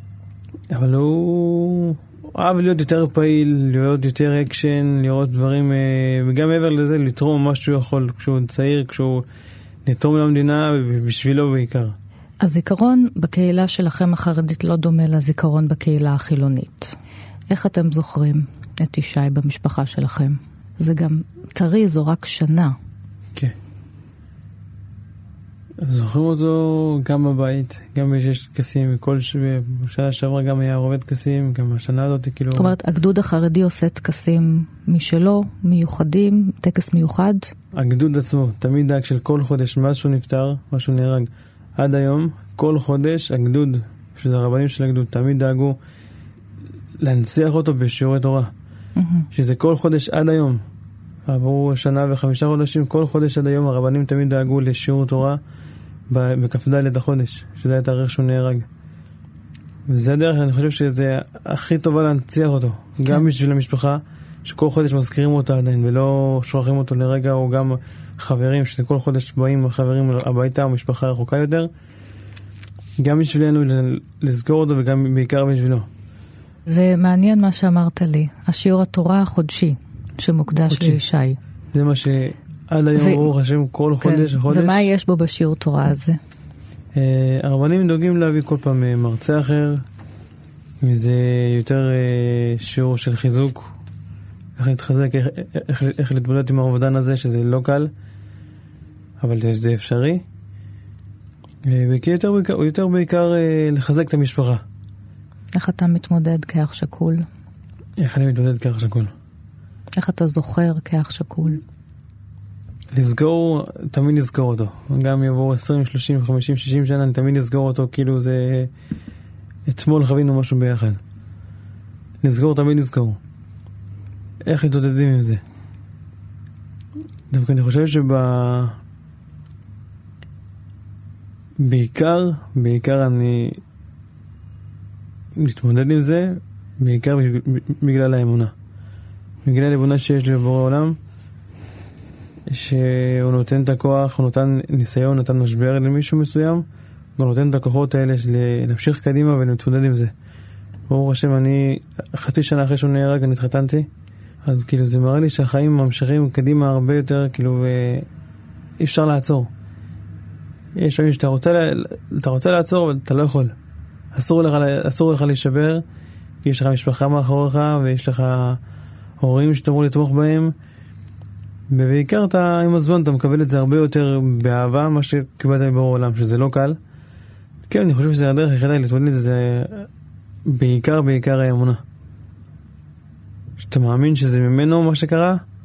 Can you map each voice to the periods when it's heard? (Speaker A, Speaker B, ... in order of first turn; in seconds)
Speaker A: 0.7-9.2, 9.8-11.9, 25.8-32.8, 37.8-45.8, 47.0-48.5, 49.3-50.6, 51.3-55.4, 56.1-58.7, 59.9-71.7, 73.0-75.9, 80.7-81.0, 81.7-84.9, 87.0-89.8, 90.8-93.7, 94.6-97.9, 99.2-100.2, 101.7-104.6, 108.0-109.1, 112.9-118.7, 119.7-121.0, 122.2-123.2, 124.5-125.4, 127.3-128.8, 131.6-133.6, 135.4-138.5, 139.4-141.0, 142.5-146.7, 147.2-150.1, 150.9-153.9, 154.5-158.1, 158.8-159.5, 160.8-163.5, 164.1-165.8, 166.4-168.6, 169.2-170.5, 171.7-176.8, 177.7-179.9, 180.5-181.8, 183.6-185.4
Speaker B: 12.4-17.0, 17.5-22.7, 32.5-37.5, 49.0-49.3, 76.7-81.4, 83.0-83.3, 84.0-86.2, 105.5-107.2, 110.0-111.6